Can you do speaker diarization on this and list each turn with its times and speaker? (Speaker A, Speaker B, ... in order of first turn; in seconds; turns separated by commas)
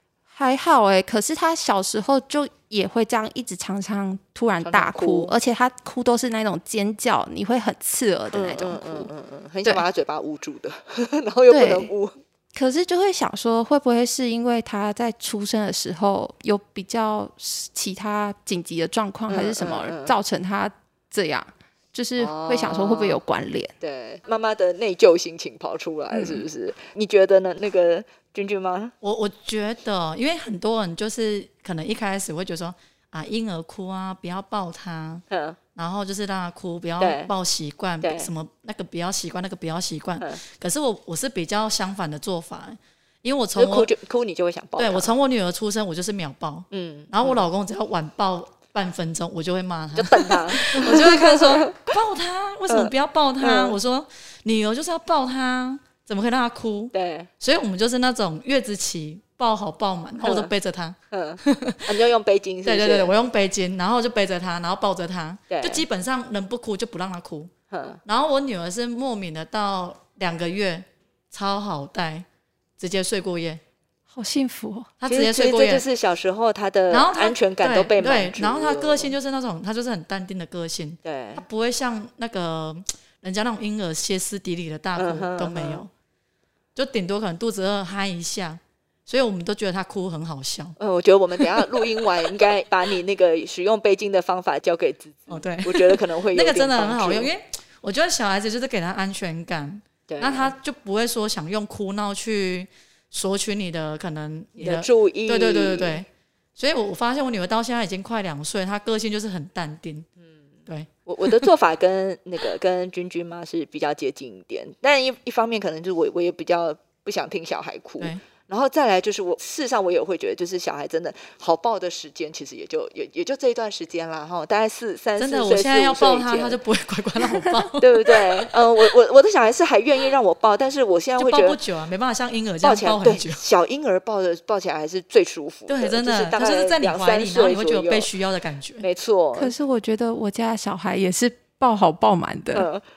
Speaker A: 0.3-9.1, Speaker B: 4.6-5.3, Speaker B: 8.3-12.2, Speaker A: 11.5-11.9, Speaker A: 12.5-23.7, Speaker B: 19.3-20.2, Speaker B: 22.2-23.2, Speaker B: 23.8-28.9, Speaker A: 26.1-26.4, Speaker C: 29.0-35.2, Speaker B: 35.3-35.6, Speaker C: 35.8-43.9, Speaker B: 37.0-37.3, Speaker B: 38.0-38.3, Speaker B: 43.5-45.1, Speaker C: 44.8-61.9, Speaker B: 46.7-47.4, Speaker B: 50.0-51.9, Speaker B: 52.7-53.8, Speaker B: 56.9-57.3, Speaker B: 60.2-60.5, Speaker B: 61.1-63.1, Speaker C: 62.6-67.5, Speaker B: 65.5-65.8, Speaker B: 67.7-68.0, Speaker C: 68.0-72.3, Speaker C: 72.8-73.6, Speaker A: 74.1-74.9, Speaker C: 75.0-75.8, Speaker B: 75.1-79.2, Speaker C: 76.9-85.9, Speaker B: 81.0-81.4, Speaker B: 85.0-85.8, Speaker C: 86.8-90.8, Speaker B: 90.8-97.3, Speaker C: 91.4-91.7, Speaker C: 95.3-110.1, Speaker B: 100.1-100.5, Speaker B: 104.6-106.0, Speaker C: 110.7-111.5, Speaker B: 111.1-126.6, Speaker C: 125.2-128.5, Speaker B: 127.8-131.6, Speaker C: 131.2-133.4, Speaker B: 132.6-138.1, Speaker C: 135.7-138.8, Speaker B: 138.8-139.6, Speaker A: 139.4-142.7, Speaker B: 142.5-142.8